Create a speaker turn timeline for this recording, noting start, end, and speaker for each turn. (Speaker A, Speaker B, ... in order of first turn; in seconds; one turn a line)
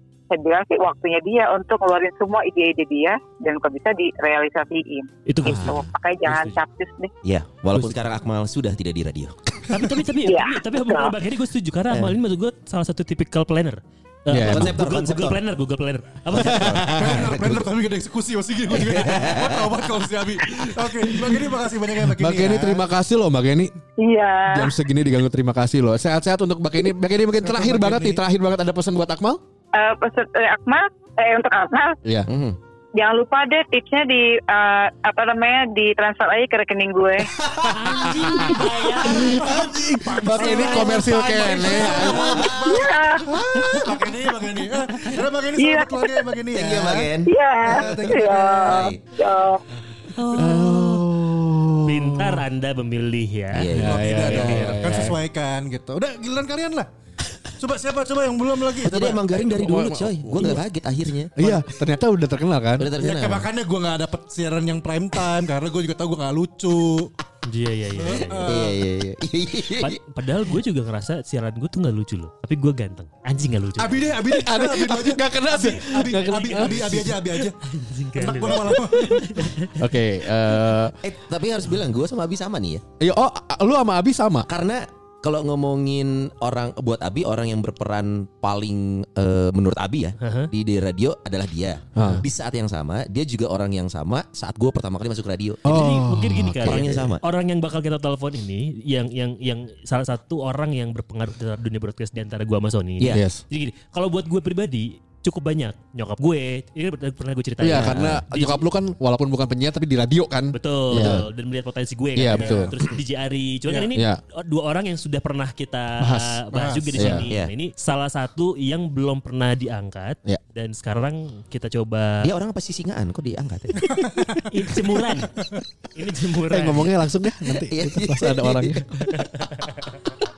Speaker A: 0.3-7.1
Speaker B: 5.3-6.6
Speaker C: 5.4-5.8
Speaker D: 7.2-9.8
Speaker C: 7.7-8.0
Speaker B: 9.7-16.8
Speaker A: 10.2-11.2
Speaker C: 14.3-14.8
Speaker D: 14.4-15.4
Speaker D: 16.3-17.7
Speaker C: 16.4-17.5
Speaker E: 16.9-22.9
Speaker D: 18.7-20.0
Speaker C: 22.1-23.7
Speaker A: 24.0-24.7
Speaker C: 24.5-29.4
Speaker E: 27.4-28.2
Speaker A: 29.8-32.0
Speaker D: 32.3-32.6
Speaker A: 33.0-37.3
Speaker D: 37.4-38.6
Speaker B: 37.7-39.5
Speaker C: 37.9-42.5
Speaker E: 38.1-38.5
Speaker E: 39.2-47.1
Speaker D: 39.4-39.8
Speaker D: 40.4-40.7
Speaker D: 42.0-44.2
Speaker A: 42.6-43.3
Speaker A: 45.6-46.3
Speaker D: 46.5-49.0
Speaker A: 47.2-49.6
Speaker E: 47.7-48.9
Speaker B: 50.1-51.0
Speaker C: 50.4-52.4
Speaker B: 51.9-53.7
Speaker D: 53.5-54.9
Speaker C: 53.7-55.2
Speaker E: 53.9-56.9
Speaker B: 54.3-55.1
Speaker E: 57.6-59.3
Speaker D: 58.8-61.5
Speaker C: 59.3-60.6
Speaker C: 61.4-62.9
Speaker D: 62.8-63.5
Speaker E: 63.0-67.1
Speaker B: 67.5-68.5
Speaker E: 68.0-68.8
Speaker D: 68.5-70.0
Speaker B: 69.8-74.2
Speaker E: 73.8-77.6
Speaker C: 74.3-77.1
Speaker B: 75.5-79.8
Speaker E: 78.2-79.4
Speaker C: 79.8-81.0
Speaker D: 81.0-82.8
Speaker C: 83.0-84.5
Speaker D: 84.5-95.7
Speaker B: 90.2-90.5
Speaker C: 92.0-92.2
Speaker C: 95.7-97.0
Speaker B: 95.7-108.6
Speaker D: 96.6-97.2
Speaker C: 103.1-103.4
Speaker C: 107.6-111.3
Speaker D: 107.7-108.2
Speaker B: 110.5-122.3
Speaker D: 110.9-111.3
Speaker C: 112.2-112.7
Speaker E: 112.3-112.7
Speaker C: 113.9-114.2
Speaker E: 116.0-117.3
Speaker C: 117.0-117.3
Speaker D: 122.2-124.0
Speaker E: 123.9-124.5
Speaker B: 124.5-125.3
Speaker B: 125.9-126.9
Speaker C: 126.5-128.9
Speaker D: 127.7-128.9
Speaker B: 129.2-129.9